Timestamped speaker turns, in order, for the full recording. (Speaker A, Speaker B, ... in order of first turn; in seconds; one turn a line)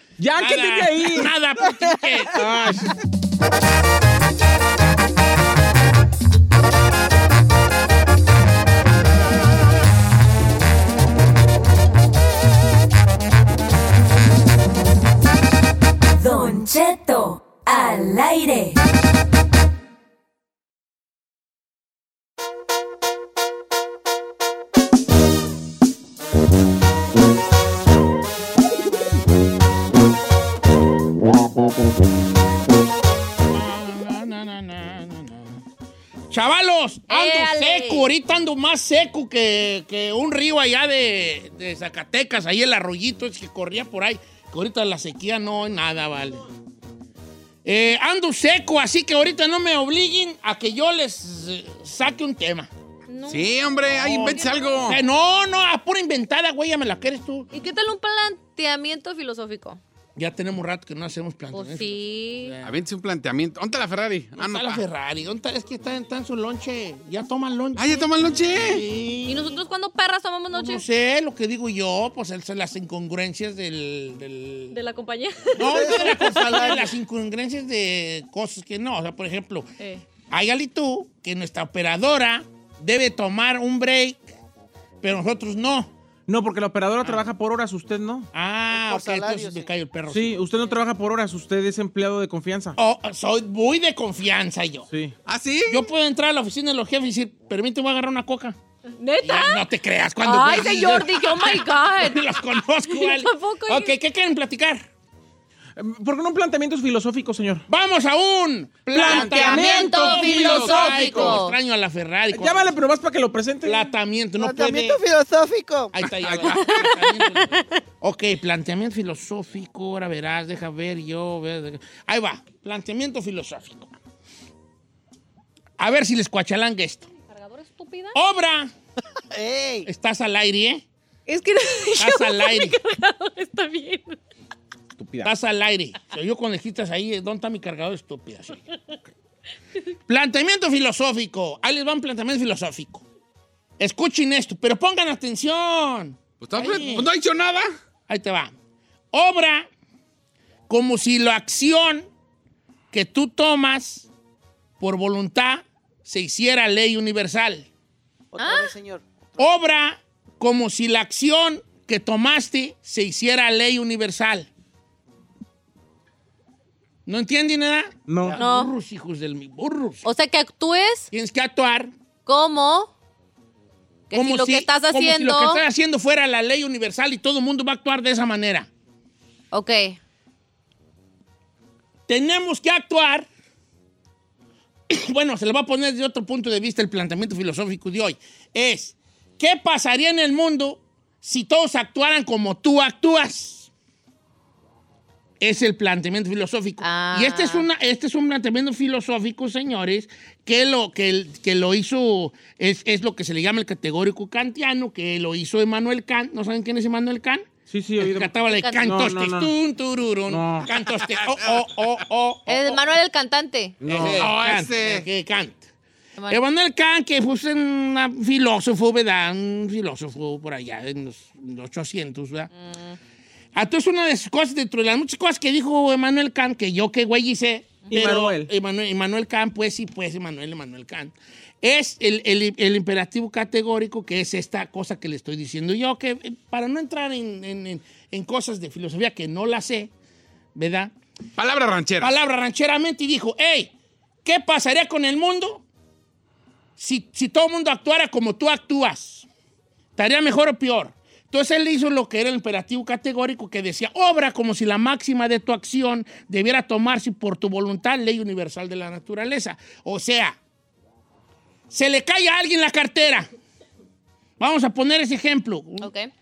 Speaker A: 0.2-1.3
Speaker B: 0.4-2.5
Speaker C: 1.7-1.9
Speaker A: 2.4-2.9
Speaker D: 16.2-18.8
Speaker B: 33.5-35.6
Speaker B: 36.3-46.5
Speaker E: 37.1-38.1
Speaker B: 47.6-52.7
Speaker E: 53.1-55.0
Speaker F: 53.3-55.0
Speaker B: 54.1-57.5
Speaker E: 57.5-59.8
Speaker B: 60.2-62.8
Speaker E: 61.5-62.6
Speaker F: 62.6-64.8
Speaker B: 64.4-69.6
Speaker F: 67.8-68.8
Speaker E: 69.3-70.8
Speaker B: 70.5-74.8
Speaker E: 74.7-76.9
Speaker B: 75.5-79.7
Speaker C: 75.6-76.9
Speaker B: 80.3-84.3
Speaker B: 85.0-85.9
Speaker A: 86.3-88.3
Speaker B: 88.3-90.4
Speaker C: 88.7-89.7
Speaker A: 90.1-92.8
Speaker B: 92.8-94.9
Speaker F: 95.2-95.9
Speaker B: 95.7-98.6
Speaker E: 99.0-99.7
Speaker B: 99.2-104.9
Speaker E: 100.2-104.0
Speaker A: 105.8-107.7
Speaker B: 107.7-112.8
Speaker A: 108.9-111.4
Speaker E: 109.0-111.6
Speaker A: 112.3-113.9
Speaker B: 113.6-115.0
Speaker C: 114.4-116.1
Speaker B: 115.9-123.9
Speaker F: 116.0-116.7
Speaker E: 116.4-117.7
Speaker B: 125.8-127.1
Speaker E: 127.3-128.2
Speaker B: 128.1-128.7
Speaker C: 129.3-129.9
Speaker B: 129.9-130.8
Speaker E: 131.3-134.2
Speaker B: 132.0-132.8
Speaker A: 135.0-135.3
Speaker B: 135.2-138.7
Speaker B: 140.1-143.0
Speaker B: 143.8-147.1
Speaker F: 146.4-147.7
Speaker B: 148.1-148.5
Speaker B: 149.1-149.7
Speaker B: 150.7-152.1
Speaker B: 152.9-154.1
Speaker B: 154.8-157.7
Speaker C: 158.3-159.1
Speaker E: 158.4-158.7
Speaker B: 159.4-164.5
Speaker B: 167.1-170.0
Speaker A: 168.1-168.4
Speaker E: 168.4-168.7
Speaker E: 170.0-171.1
Speaker B: 171.1-171.9
Speaker E: 172.3-172.9
Speaker E: 174.1-175.6
Speaker B: 174.1-178.7
Speaker E: 179.5-180.0
Speaker B: 182.1-183.3
Speaker B: 184.9-193.7
Speaker B: 195.4-212.8
Speaker E: 196.8-197.7
Speaker A: 207.7-209.5
Speaker E: 208.4-208.9
Speaker A: 210.3-210.7
Speaker E: 212.5-213.8
Speaker A: 213.8-214.3
Speaker B: 213.8-215.6
Speaker F: 214.0-215.1
Speaker B: 216.3-222.5
Speaker B: 223.6-239.9
Speaker A: 227.9-228.5
Speaker B: 240.6-240.9
Speaker F: 241.4-242.2
Speaker B: 242.0-243.7
Speaker B: 244.2-245.6
Speaker B: 246.8-249.3
Speaker B: 250.0-260.4
Speaker B: 261.7-263.3
Speaker B: 264.4-265.9
Speaker E: 265.8-266.1